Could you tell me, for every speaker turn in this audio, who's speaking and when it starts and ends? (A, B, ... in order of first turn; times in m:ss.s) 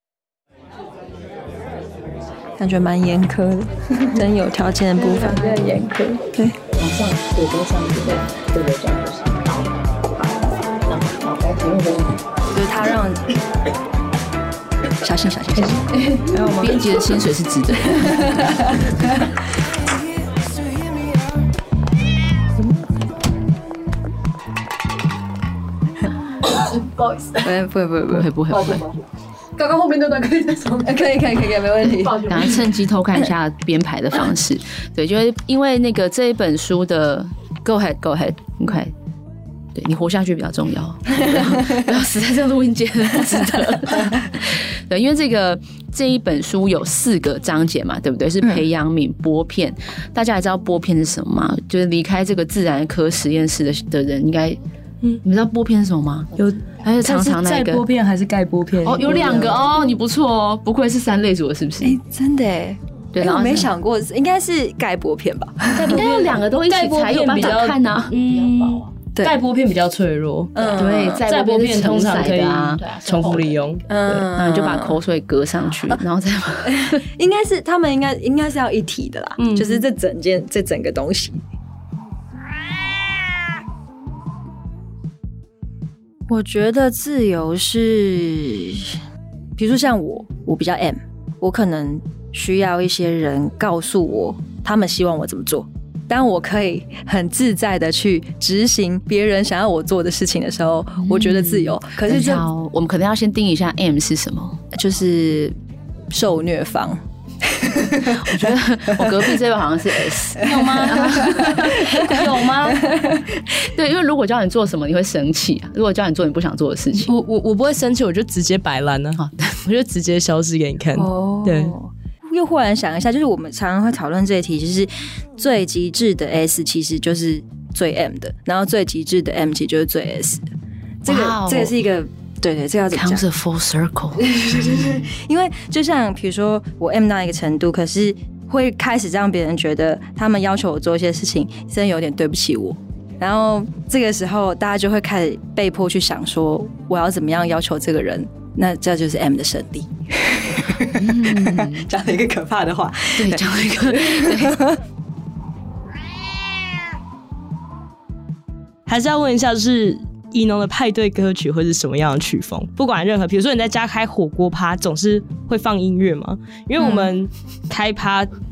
0:02.6-0:06.6 A
0:05.0-0:05.8 B
0:06.8-0:10.4 B
0:10.9-0:12.1 B
0:12.5-0:13.2 A
0:15.0-0:17.1 A
0:15.9-0:18.7 B
0:18.0-0:18.3 A
0:26.5-0:27.5 C
0:27.4-0:28.3 A
0:28.1-0:28.8 B
0:28.5-0:29.0 C
0:29.6-0:31.0 C
0:30.8-0:32.6 A
0:31.8-0:38.9 B
0:39.7-0:54.6 B
0:55.2-0:56.3 B
0:56.4-0:59.6 D
0:56.8-0:57.8 B
0:58.8-1:02.0 B
1:01.8-1:06.1 A
1:03.1-1:03.7 B
1:05.7-1:08.2 B
1:05.8-1:14.2 D
1:10.5-1:11.2 A
1:10.6-1:17.0 B
1:13.9-1:15.0 A
1:16.6-1:21.4 A
1:19.4-1:19.8 D
1:26.3-1:29.0 A
1:29.6-1:42.5 A
1:41.0-1:44.6 B
1:44.7-1:45.6 A
1:46.1-1:49.4 A
1:48.2-1:51.8 B
1:50.4-1:52.8 D
1:50.4-1:53.4 A
1:53.6-1:57.1 B
1:57.0-2:01.7 D
1:59.2-1:59.6 B
2:00.9-2:10.4 A
2:11.0-2:13.2 A
2:11.0-2:11.7 B
2:12.9-2:14.3 B
2:14.2-2:34.8 A
2:31.0-2:31.9 B
2:33.2-2:34.6 B
2:38.9-2:48.3 D